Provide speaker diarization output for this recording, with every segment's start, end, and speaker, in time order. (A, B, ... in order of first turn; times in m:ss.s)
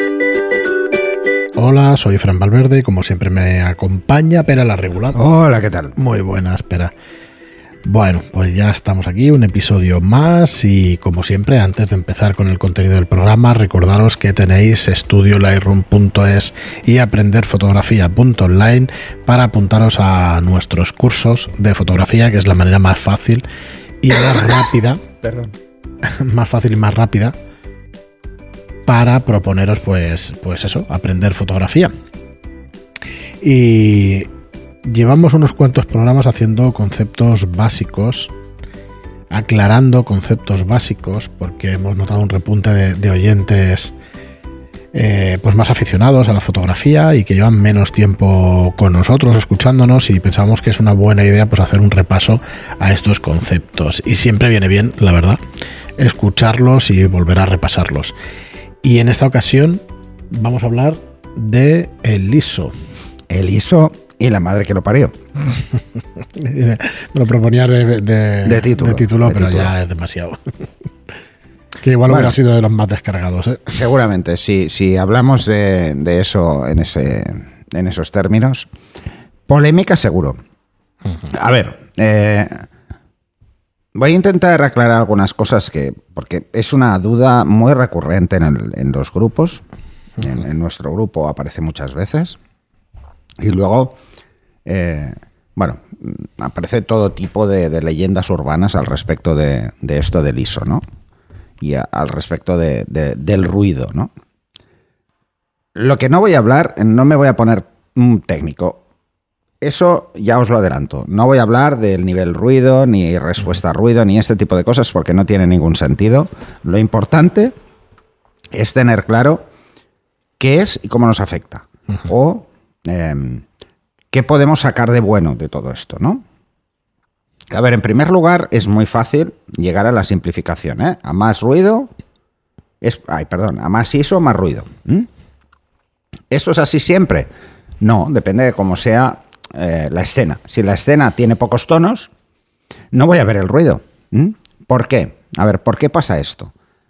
0:01.5-0:05.2 A
0:05.1-0:06.0 B
0:06.0-0:06.9 A
0:07.8-0:23.4 A
0:24.0-0:25.0 A
0:26.0-0:27.3 A
0:28.8-0:31.9 A
0:33.4-0:34.3 A
0:34.8-0:38.3 A
0:39.3-0:43.9 A
0:44.9-0:55.4 A
0:56.0-0:58.1 A
0:58.8-1:02.7 A
1:03.3-1:05.1 B
1:06.4-1:10.4 A
1:08.4-1:09.7 B
1:11.8-1:13.8 A
1:12.1-1:12.4 B
1:13.7-1:18.7 B
1:19.5-1:20.4 B
1:21.3-1:22.6 B
1:23.9-1:29.6 B
1:30.2-1:32.4 B
1:33.4-1:34.0 B
1:34.6-1:40.8 B
1:41.6-1:44.1 B
1:45.8-1:48.8 B
1:49.6-1:57.5 B
1:58.5-1:59.4 B
2:00.4-2:03.4 B
2:04.1-2:06.2 B
2:07.5-2:11.9 B
2:12.8-2:15.1 B
2:16.3-2:17.3 B
2:17.8-2:22.1 B
2:22.9-2:26.5 B